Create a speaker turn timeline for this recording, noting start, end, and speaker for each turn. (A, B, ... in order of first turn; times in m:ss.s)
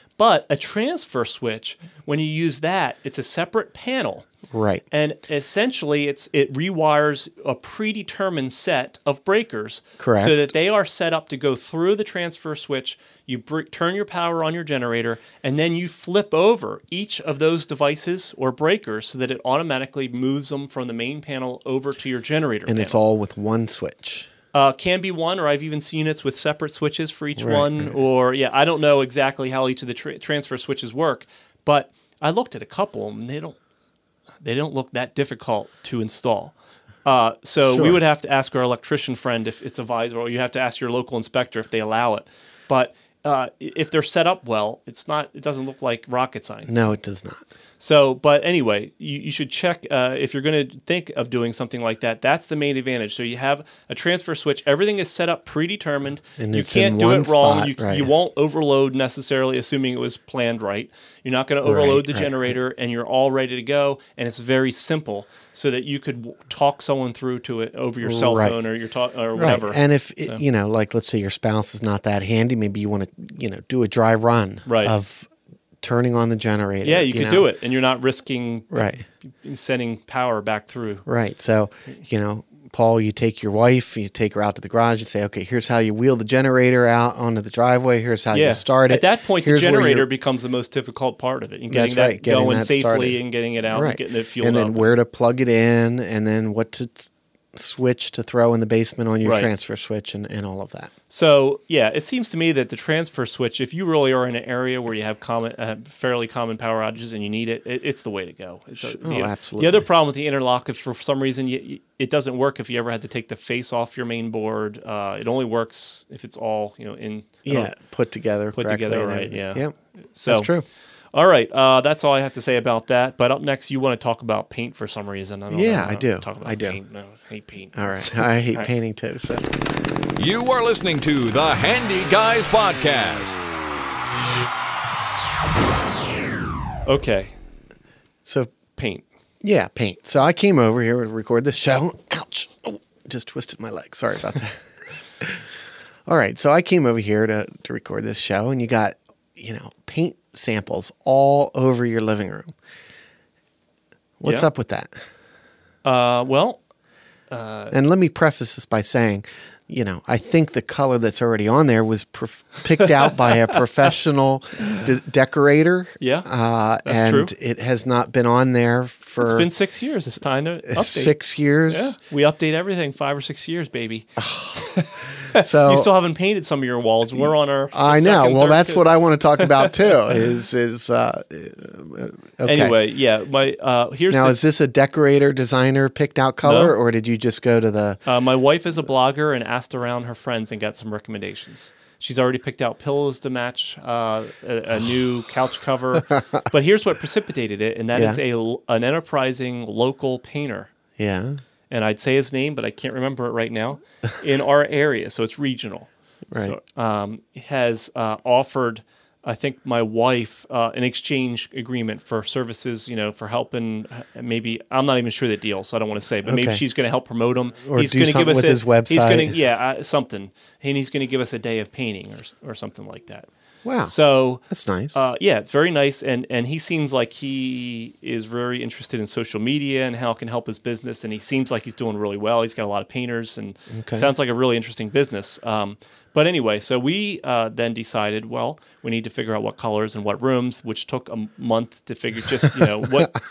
0:00.2-0:04.2 A
0:04.5-0:04.8 B
0:04.9-0:23.0 A
0:10.0-0:10.5 B
0:22.7-0:24.3 B
0:24.5-0:33.6 A
0:27.4-0:28.0 B
0:34.4-0:46.9 A
0:37.6-0:38.0 B
0:46.7-0:47.4 B
0:47.8-1:10.4 A
0:56.4-0:58.1 B
1:01.6-1:02.6 B
1:08.0-1:08.6 B
1:09.3-1:15.3 B
1:14.6-1:15.0 A
1:15.8-1:17.5 B
1:16.8-1:21.0 A
1:18.7-1:19.0 B
1:21.0-1:30.1 B
1:28.3-1:35.0 A
1:31.7-1:40.9 B
1:39.2-1:39.5 A
1:41.1-1:57.7 A
1:48.8-1:49.8 B
1:57.4-1:59.7 B
1:58.5-2:00.5 A
2:00.2-2:00.6 B
2:01.1-2:08.7 A
2:05.5-2:06.8 B
2:07.7-2:09.5 B
2:10.2-2:13.4 C
2:16.8-2:17.3 A
2:18.2-2:18.5 B
2:18.8-2:19.0 A
2:19.4-2:25.4 B
2:26.1-2:32.5 B
2:34.2-2:34.9 B
2:34.2-2:34.5 A
2:35.8-2:36.6 A
2:37.3-2:37.7 A
2:37.7-2:49.5 B
2:46.0-2:46.3 A
2:46.8-2:47.3 A
2:49.2-2:59.9 A
2:50.7-2:52.0 B
2:54.2-2:55.9 B
2:57.1-3:02.8 B
3:02.4-3:04.4 A
3:04.1-3:08.0 B
3:06.4-3:06.7 A
3:08.0-3:20.7 A
3:17.9-3:18.2 B
3:21.0-3:21.4 B
3:21.7-3:43.3 A
3:26.3-3:26.6 B
3:36.2-3:36.6 B
3:37.6-3:39.3 B
3:43.6-3:45.0 B
3:43.8-3:44.4 A
3:44.9-4:03.2 A
3:53.7-3:54.1 B